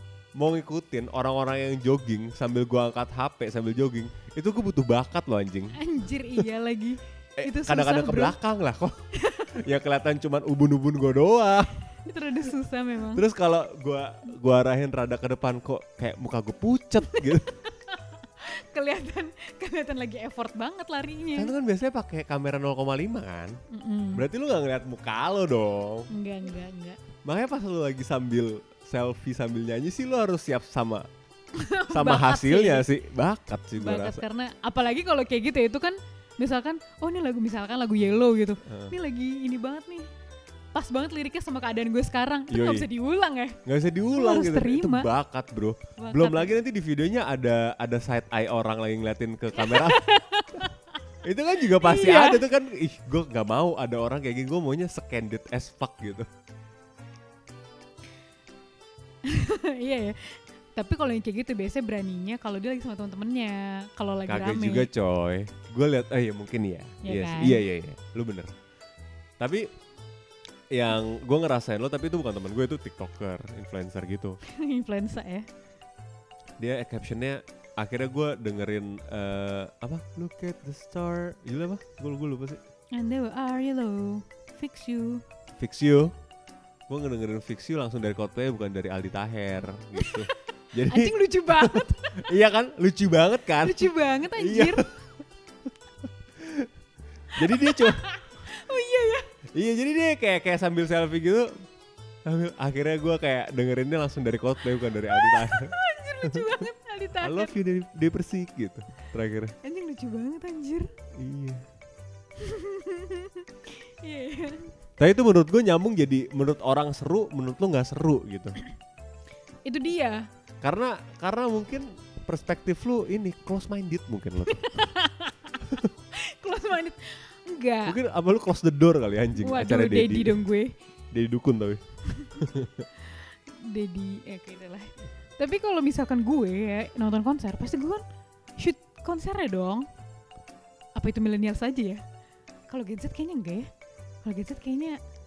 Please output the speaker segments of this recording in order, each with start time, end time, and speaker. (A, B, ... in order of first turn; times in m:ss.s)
0:00.4-0:05.8 A
0:05.7-0:08.4 B
0:07.4-0:11.8 A
0:09.2-0:09.7 B
0:12.0-0:13.2 B
0:13.1-0:17.5 A
0:17.1-0:21.5 B
0:21.4-0:23.6 A
0:23.7-0:24.2 B
0:24.2-0:26.1 A
0:26.1-0:27.0 B
0:27.2-0:31.1 A
0:31.6-0:32.9 B
0:31.9-0:34.2 A
0:33.8-0:40.1 B
0:38.7-0:39.0 A
0:40.7-0:43.6 B
0:42.5-0:42.9 A
0:43.6-0:50.0 A
0:44.1-0:45.1 B
0:46.0-0:46.6 B
0:49.6-0:50.8 B
0:51.2-0:56.3 A
0:51.6-0:52.4 B
0:59.2-1:04.9 B
1:04.3-1:08.6 A
1:07.0-1:07.6 B
1:09.4-1:09.7 A
1:10.7-1:14.4 A
1:14.5-1:15.5 B
1:16.6-1:22.6 A
1:22.9-1:25.2 B
1:25.6-1:26.1 A
1:26.9-1:34.9 A
1:30.0-1:30.2 B
1:30.8-1:32.3 B
1:33.6-1:34.9 B
1:36.4-1:36.7 A
1:37.3-1:38.1 A
1:37.4-1:39.3 B
1:39.5-1:41.6 A
1:42.2-1:46.6 A
1:45.1-1:47.5 B
1:47.2-1:49.6 A
1:49.6-1:50.9 B
1:51.2-1:51.6 A
1:52.4-1:54.7 B
1:55.0-1:58.6 A
1:59.7-2:00.3 B
2:00.6-2:04.7 A
2:04.5-2:08.0 B
2:07.9-2:10.4 A
2:09.4-2:10.7 B
2:11.1-2:11.8 A
2:12.4-2:12.9 A
2:13.5-2:18.0 B
2:18.6-2:19.9 B
2:21.0-2:22.0 B
2:22.7-2:23.7 B
2:24.2-2:25.0 B